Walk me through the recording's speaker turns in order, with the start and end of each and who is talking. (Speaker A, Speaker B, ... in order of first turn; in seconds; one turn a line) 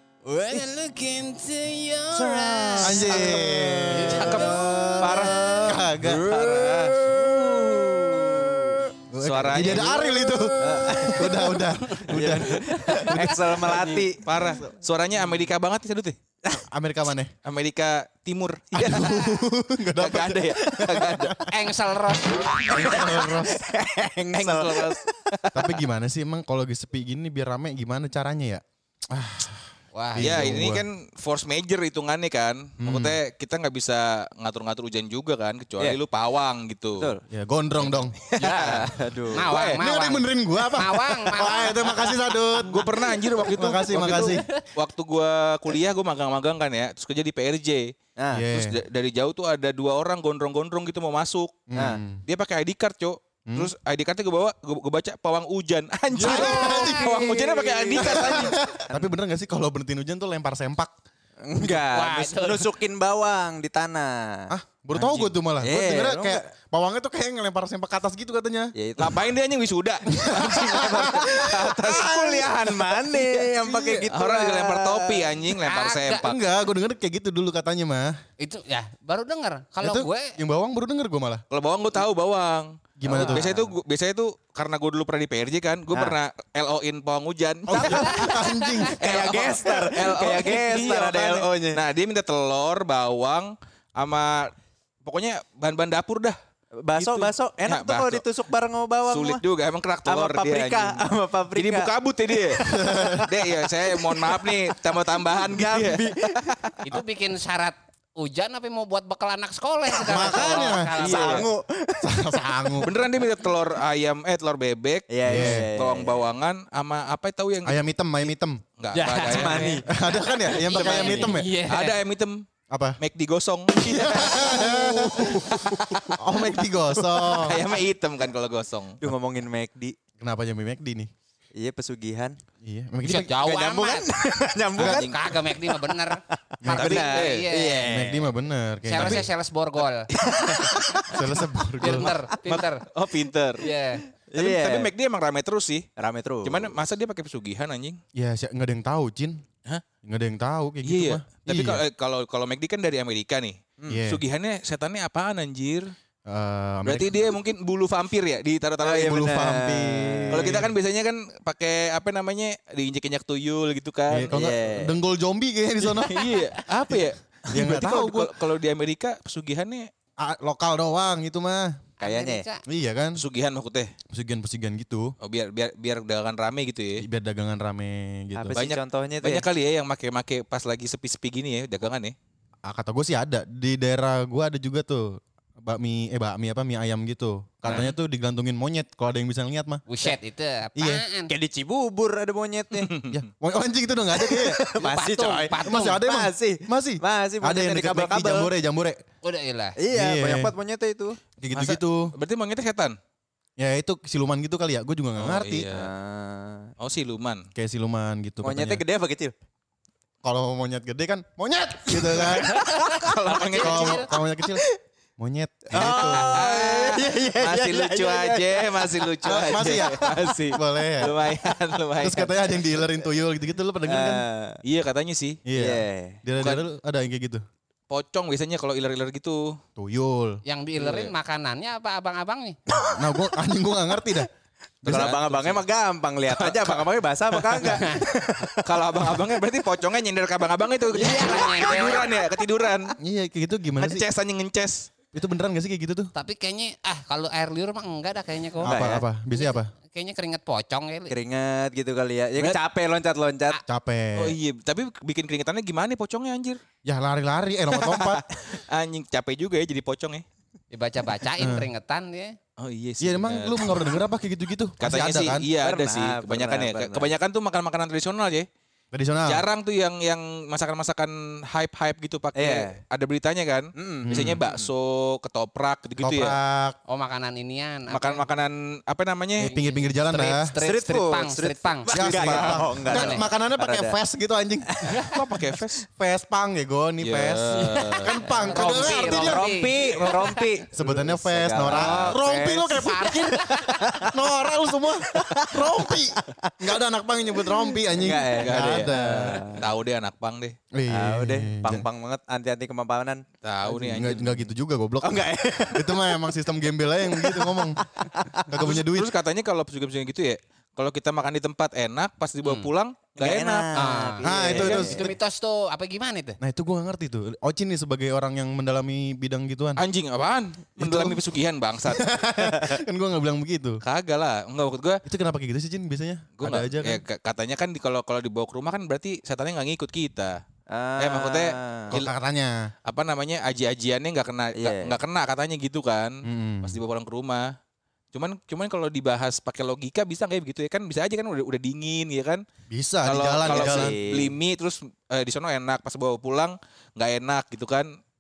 Speaker A: 0.3-3.5
Speaker B: 2.1-8.9
Speaker C: 2.8-6.3
Speaker A: 4.0-5.3
Speaker D: 4.1-5.6
Speaker D: 6.3-6.9
Speaker C: 9.1-14.0
Speaker D: 9.2-10.0
Speaker A: 9.9-12.0
Speaker B: 10.6-14.2
Speaker A: 12.8-14.1
Speaker D: 13.7-16.2
Speaker C: 16.5-17.3
Speaker D: 17.4-19.2
Speaker C: 18.7-20.5
Speaker B: 18.8-19.3
Speaker D: 20.0-21.4
Speaker B: 20.3-21.2
Speaker C: 21.1-21.5
Speaker A: 21.5-23.0
Speaker B: 22.6-25.6
Speaker C: 22.8-23.6
Speaker D: 24.4-25.4
Speaker C: 25.6-30.9
Speaker A: 29.9-30.6
Speaker D: 30.2-37.1
Speaker C: 32.8-33.2
Speaker B: 37.0-37.2
Speaker C: 37.3-38.2
Speaker D: 38.2-39.8
Speaker B: 38.4-39.5
Speaker A: 39.3-42.1
Speaker C: 39.7-44.4
Speaker D: 42.7-47.9
Speaker A: 44.1-44.5
Speaker B: 48.2-48.4
Speaker C: 48.4-48.8
Speaker D: 48.5-51.7
Speaker C: 51.7-52.2
Speaker D: 52.3-58.6
Speaker C: 56.1-57.1
Speaker B: 56.2-59.1
Speaker A: 56.2-57.0
Speaker C: 58.0-60.9
Speaker B: 61.5-64.5
Speaker A: 61.6-62.7
Speaker C: 64.5-68.7
Speaker D: 64.9-65.3
Speaker B: 65.6-66.5
Speaker B: 68.8-69.3
Speaker D: 69.0-76.4
Speaker C: 70.1-71.4
Speaker B: 70.4-75.4
Speaker C: 73.7-74.0
Speaker A: 75.6-76.3
Speaker C: 76.2-78.1
Speaker A: 78.4-80.4
Speaker C: 79.8-81.4
Speaker D: 81.5-88.1
Speaker C: 83.0-83.6
Speaker B: 83.1-83.7
Speaker C: 87.7-89.0
Speaker B: 87.7-91.8
Speaker A: 87.9-88.9
Speaker D: 89.0-96.4
Speaker B: 96.8-99.4
Speaker D: 97.0-98.3
Speaker D: 99.1-102.7
Speaker B: 100.0-106.8
Speaker C: 102.6-103.3
Speaker D: 103.2-106.8
Speaker A: 106.8-111.5
Speaker B: 110.0-112.9
Speaker C: 110.1-111.5
Speaker C: 112.0-112.9
Speaker D: 112.8-117.8
Speaker B: 115.1-116.2
Speaker C: 115.3-115.7
Speaker C: 117.7-118.6
Speaker D: 118.8-119.8
Speaker A: 118.9-122.0
Speaker B: 119.1-119.9
Speaker C: 119.9-121.5
Speaker B: 120.6-121.3
Speaker D: 121.7-122.5
Speaker C: 122.7-123.0
Speaker D: 123.0-126.1
Speaker C: 123.8-125.5
Speaker B: 124.6-124.9
Speaker A: 125.3-125.6
Speaker B: 125.5-126.2
Speaker C: 126.2-127.6
Speaker B: 126.9-127.6
Speaker D: 127.4-129.0
Speaker B: 129.0-130.0
Speaker C: 130.2-131.1
Speaker B: 131.6-132.4
Speaker C: 132.6-133.3
Speaker A: 133.0-134.1
Speaker B: 133.4-138.3
Speaker D: 134.8-135.1
Speaker A: 134.8-137.9
Speaker C: 136.6-137.0
Speaker D: 136.8-137.4
Speaker C: 137.8-139.3
Speaker A: 138.9-140.1
Speaker B: 140.1-142.3
Speaker C: 141.1-142.1
Speaker A: 141.8-142.8
Speaker D: 142.5-143.7
Speaker A: 143.6-144.1
Speaker B: 144.3-144.9
Speaker D: 144.4-145.9
Speaker B: 146.0-146.8
Speaker D: 146.4-148.0
Speaker C: 148.2-149.4
Speaker C: 150.0-151.8
Speaker D: 150.8-155.9
Speaker C: 153.9-154.2
Speaker C: 156.3-157.2
Speaker D: 156.8-159.2
Speaker B: 158.8-160.6
Speaker C: 159.0-160.7
Speaker D: 160.3-164.3
Speaker C: 164.1-166.1
Speaker B: 164.3-164.9
Speaker D: 166.0-169.9
Speaker A: 166.1-166.6
Speaker C: 167.5-168.3
Speaker C: 170.2-171.8
Speaker A: 172.0-172.6
Speaker B: 172.0-172.4
Speaker C: 172.7-173.2
Speaker D: 173.2-173.9
Speaker C: 174.1-175.1
Speaker D: 175.2-177.0
Speaker C: 177.0-178.6
Speaker B: 178.4-179.5
Speaker D: 178.5-182.2
Speaker C: 182.7-189.8
Speaker A: 189.9-191.3
Speaker C: 190.8-191.0
Speaker B: 191.3-192.9
Speaker D: 192.7-193.2
Speaker C: 193.1-194.7
Speaker B: 194.1-198.5
Speaker A: 194.8-196.0
Speaker C: 195.6-199.0
Speaker A: 199.2-199.8
Speaker B: 199.8-201.2
Speaker C: 199.9-200.5
Speaker C: 201.4-202.1
Speaker D: 201.5-203.0
Speaker C: 203.6-205.7
Speaker D: 205.2-205.9
Speaker B: 205.7-206.7
Speaker D: 206.8-207.5
Speaker C: 207.6-208.8
Speaker B: 208.4-209.3
Speaker C: 210.2-212.6
Speaker B: 212.0-214.8
Speaker D: 212.3-214.1
Speaker A: 212.8-214.1
Speaker C: 213.6-214.7
Speaker C: 215.2-216.4
Speaker B: 215.7-220.6
Speaker D: 215.8-222.7
Speaker C: 219.2-221.2
Speaker C: 222.0-224.2
Speaker B: 223.8-224.6
Speaker D: 224.6-225.4
Speaker C: 225.5-227.4
Speaker B: 225.6-226.2
Speaker D: 227.9-229.6
Speaker C: 229.8-230.4
Speaker A: 230.4-232.6
Speaker D: 230.8-231.1
Speaker C: 232.9-234.3
Speaker D: 234.8-235.7
Speaker B: 234.8-239.2
Speaker D: 236.3-237.8
Speaker D: 238.5-243.0
Speaker A: 240.9-242.1
Speaker B: 241.1-241.4
Speaker C: 243.0-244.1
Speaker D: 243.8-244.9
Speaker C: 245.1-246.1
Speaker A: 246.1-251.2
Speaker C: 248.6-249.7
Speaker B: 248.6-249.0
Speaker B: 251.1-253.6
Speaker C: 253.7-254.4
Speaker D: 254.2-256.6
Speaker C: 256.9-258.2
Speaker D: 257.7-260.2
Speaker A: 260.7-262.4
Speaker C: 261.4-261.7
Speaker D: 262.6-264.0
Speaker C: 263.0-265.5
Speaker D: 264.8-268.5
Speaker B: 265.6-267.1
Speaker C: 268.9-269.4
Speaker D: 269.2-276.4
Speaker B: 272.4-272.8
Speaker B: 273.8-274.7
Speaker C: 274.1-274.4
Speaker C: 276.0-276.8
Speaker A: 276.9-278.2
Speaker D: 277.9-279.5
Speaker C: 279.4-280.5
Speaker A: 279.4-281.9
Speaker B: 280.6-284.0
Speaker C: 281.9-284.8
Speaker D: 282.1-282.8
Speaker A: 282.9-283.2
Speaker B: 284.8-285.1
Speaker D: 284.9-285.8
Speaker C: 286.0-289.5
Speaker D: 287.0-288.2
Speaker A: 287.5-290.4
Speaker B: 288.4-294.3
Speaker C: 290.7-299.5
Speaker A: 291.6-292.2
Speaker A: 292.7-293.8
Speaker B: 294.9-296.8
Speaker B: 297.4-299.6
Speaker D: 298.3-300.6
Speaker C: 300.7-301.9
Speaker B: 300.9-304.2
Speaker D: 303.4-304.5
Speaker C: 303.8-307.8
Speaker B: 305.0-306.3
Speaker B: 307.1-308.4
Speaker C: 308.5-309.1
Speaker D: 308.5-313.8
Speaker B: 313.2-315.1
Speaker A: 313.8-316.4
Speaker C: 314.2-315.1
Speaker C: 316.4-319.8
Speaker D: 319.8-322.1
Speaker C: 320.8-321.2
Speaker C: 321.9-323.8
Speaker B: 322.4-322.8
Speaker D: 323.8-325.0
Speaker C: 325.1-327.0
Speaker D: 326.4-330.4
Speaker B: 330.7-331.9
Speaker D: 331.0-332.1
Speaker C: 331.9-332.6
Speaker D: 332.9-337.5
Speaker B: 334.6-335.0
Speaker C: 336.2-336.8
Speaker D: 338.1-342.4
Speaker C: 342.7-343.9
Speaker D: 343.0-347.9
Speaker B: 343.4-344.4